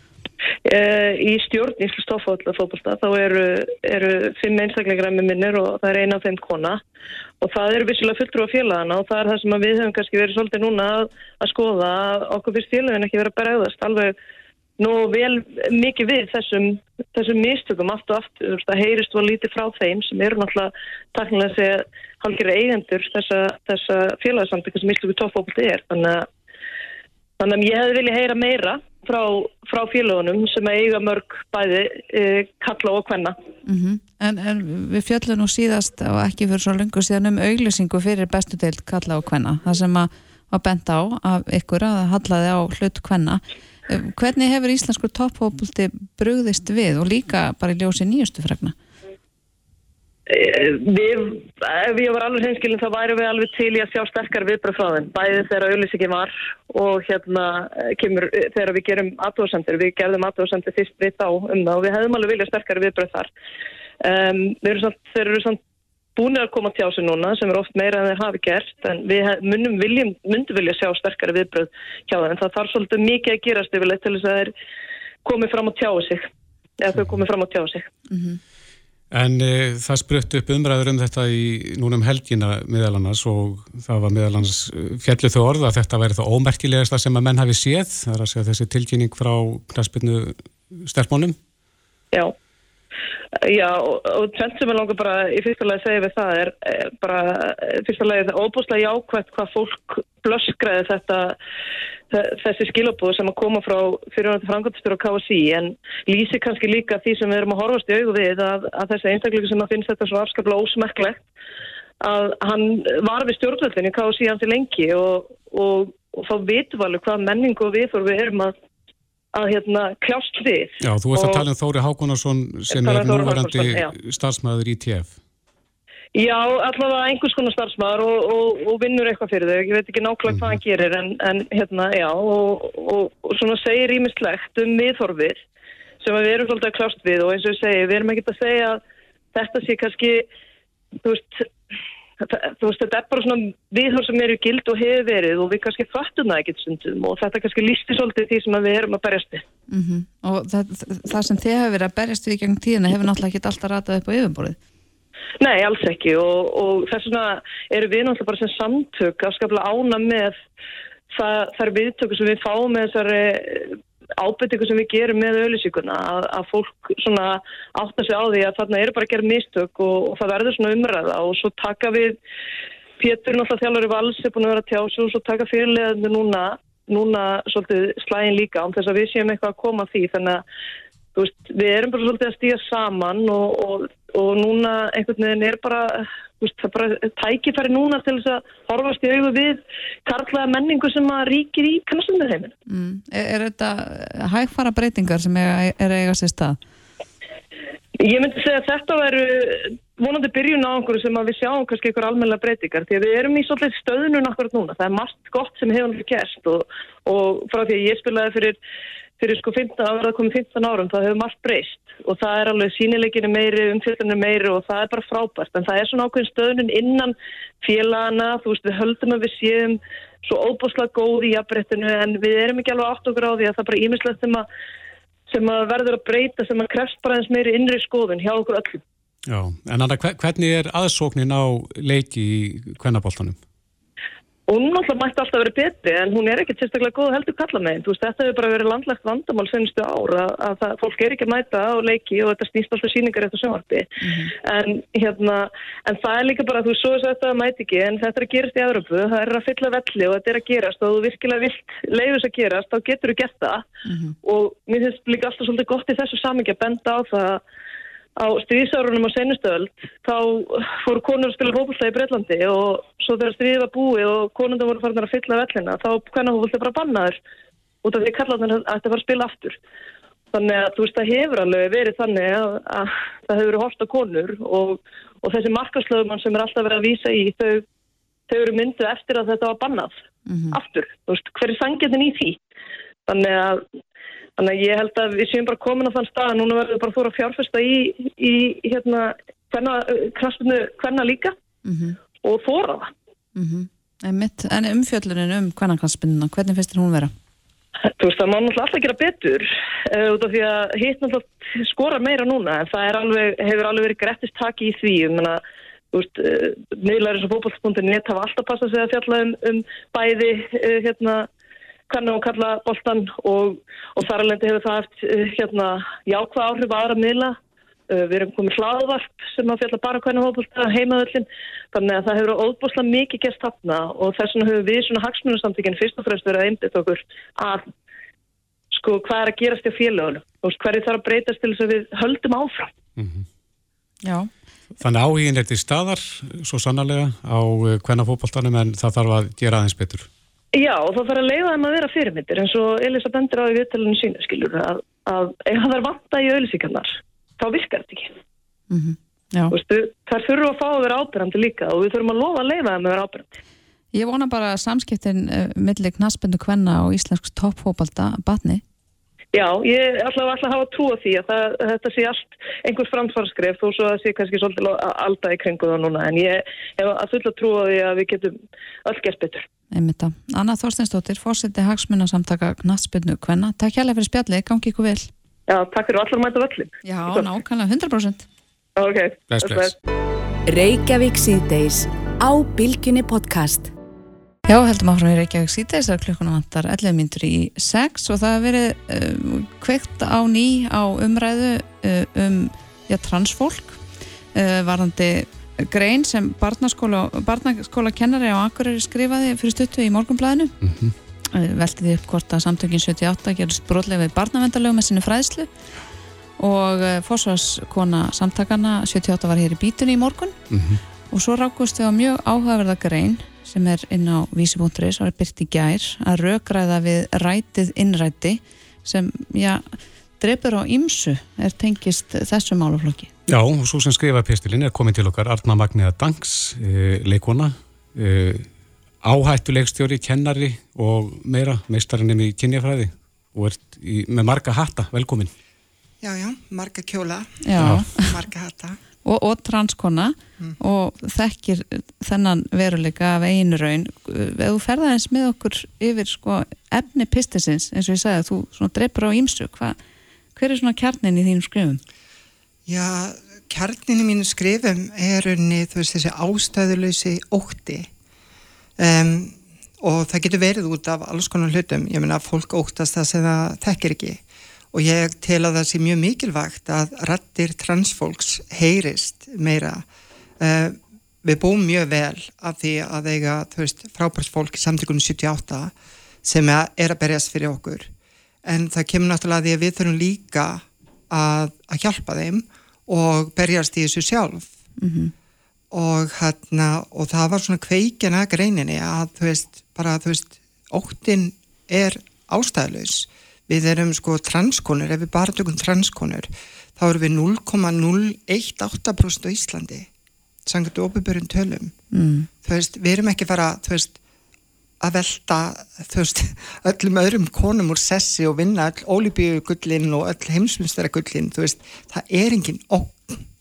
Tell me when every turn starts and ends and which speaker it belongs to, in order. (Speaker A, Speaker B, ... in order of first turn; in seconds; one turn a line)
Speaker A: 0.7-6.8
Speaker A: 7.4-14.2
Speaker A: 14.8-26.3
Speaker A: 27.4-33.4
Speaker B: 33.7-48.8
Speaker A: 50.3-63.3
Speaker A: 64.0-65.6
Speaker A: 66.2-74.5
Speaker A: 75.2-76.3
Speaker A: 76.8-77.9
Speaker B: 78.1-78.4
Speaker C: 79.1-91.4
Speaker A: 93.5-101.3
Speaker A: 102.1-111.3
Speaker A: 112.0-118.5
Speaker A: 119.3-121.5
Speaker C: 120.8-125.2
Speaker A: 122.7-123.9
Speaker A: 126.2-135.4
Speaker C: 130.3-130.6
Speaker A: 136.0-138.8
Speaker A: 139.3-140.3
Speaker A: 141.0-141.5
Speaker A: 142.2-149.4
Speaker B: 149.7-154.6
Speaker A: 155.4-160.4
Speaker A: 161.1-172.2
Speaker A: 173.0-180.4
Speaker A: 181.2-192.5
Speaker B: 192.7-196.6
Speaker A: 198.0-208.6
Speaker A: 209.2-224.5
Speaker A: 225.3-228.8
Speaker C: 229.3-233.4
Speaker A: 234.5-253.7
Speaker B: 244.0-244.3
Speaker B: 253.9-254.2
Speaker A: 254.2-257.4
Speaker A: 258.2-267.2
Speaker A: 267.8-269.6
Speaker A: 270.3-277.6
Speaker A: 278.3-280.0
Speaker B: 280.3-280.6
Speaker A: 280.5-282.4
Speaker A: 283.1-283.6
Speaker A: 284.4-291.4
Speaker B: 291.6-292.0
Speaker A: 292.2-292.9
Speaker B: 293.4-297.1
Speaker A: 298.0-305.4
Speaker A: 305.9-311.3
Speaker A: 311.9-317.4
Speaker A: 317.9-327.7
Speaker A: 328.7-332.7
Speaker C: 333.0-333.3
Speaker B: 334.0-334.3
Speaker C: 334.8-340.1
Speaker A: 340.6-348.1
Speaker B: 348.7-349.5
Speaker A: 349.5-353.3
Speaker B: 353.9-358.6
Speaker A: 359.3-369.5
Speaker B: 369.7-375.1
Speaker A: 375.5-377.3
Speaker B: 376.9-378.3
Speaker A: 378.8-379.7
Speaker C: 379.3-379.7
Speaker D: 380.5-383.7
Speaker B: 384.5-393.8
Speaker B: 394.3-400.6
Speaker C: 400.6-400.9
Speaker B: 401.3-405.5
Speaker B: 406.4-410.4
Speaker C: 410.5-410.8
Speaker B: 411.1-423.1
Speaker C: 423.3-428.5
Speaker C: 429.0-435.3
Speaker E: 436.0-438.8
Speaker B: 437.4-438.2
Speaker C: 437.6-437.9
Speaker B: 439.1-449.8
Speaker B: 450.4-451.8
Speaker E: 452.7-457.9
Speaker E: 458.8-464.2
Speaker E: 464.7-469.9
Speaker E: 470.4-475.7
Speaker E: 476.2-477.9
Speaker E: 478.4-484.5
Speaker B: 484.8-485.1
Speaker E: 485.7-499.9
Speaker E: 500.5-501.7
Speaker B: 501.9-502.3
Speaker E: 502.4-504.0
Speaker E: 504.8-513.2